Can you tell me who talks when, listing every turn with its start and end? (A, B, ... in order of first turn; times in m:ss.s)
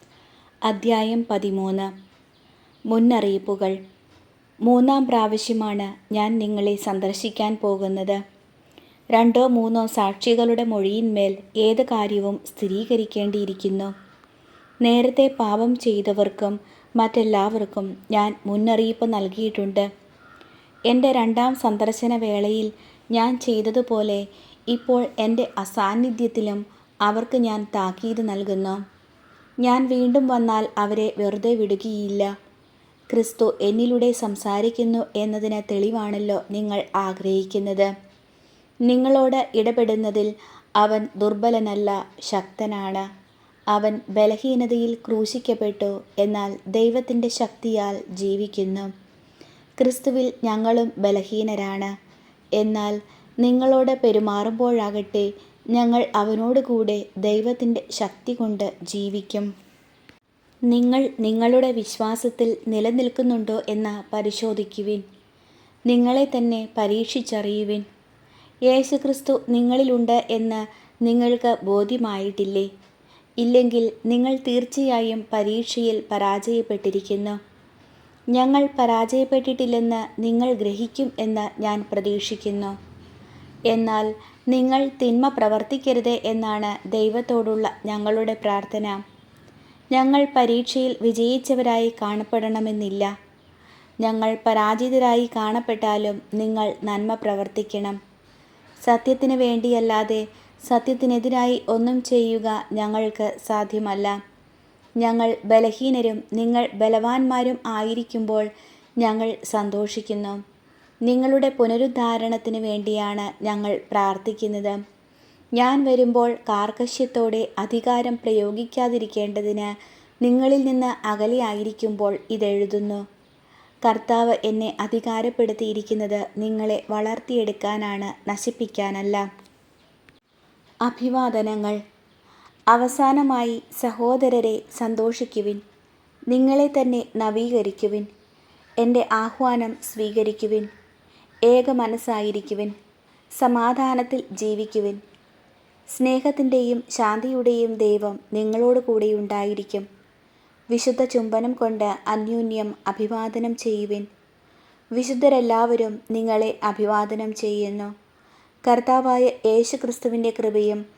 0:00.7-0:01.9 A
0:02.9-0:03.8 A
0:04.7-0:08.2 A
0:09.1-0:13.9 A
0:14.8-0:19.9 A
0:20.9-0:28.8 A
0:29.6-0:32.3 A
0:33.1-0:37.9 A
0:38.8-0:43.0 A
0:43.7-0:48.9 A
0:49.8-0:51.9 A
0:52.6-0:59.5 A
1:00.7-1:05.0 A
1:05.9-1:07.8 A
1:08.7-1:12.7 A
1:13.4-1:17.4 A
1:18.3-1:22.7 A
1:23.7-1:29.0 A
1:29.9-1:33.1 A
1:34.0-1:38.0 A
1:38.8-1:44.2 A
1:45.0-1:48.5 A
1:49.0-1:50.4 A
1:51.0-1:54.8 A
1:55.6-1:59.7 A
2:00.2-2:03.0 A
2:03.8-2:09.2 A
2:10.8-2:11.8 A
2:12.7-2:15.6 A
2:16.3-2:18.1 A
2:18.8-2:20.7 A
2:21.5-2:22.7 A
2:23.4-2:25.0 A
2:25.9-2:29.8 A
2:30.7-2:34.0 A
2:34.9-2:37.9 A
2:38.7-2:40.8 A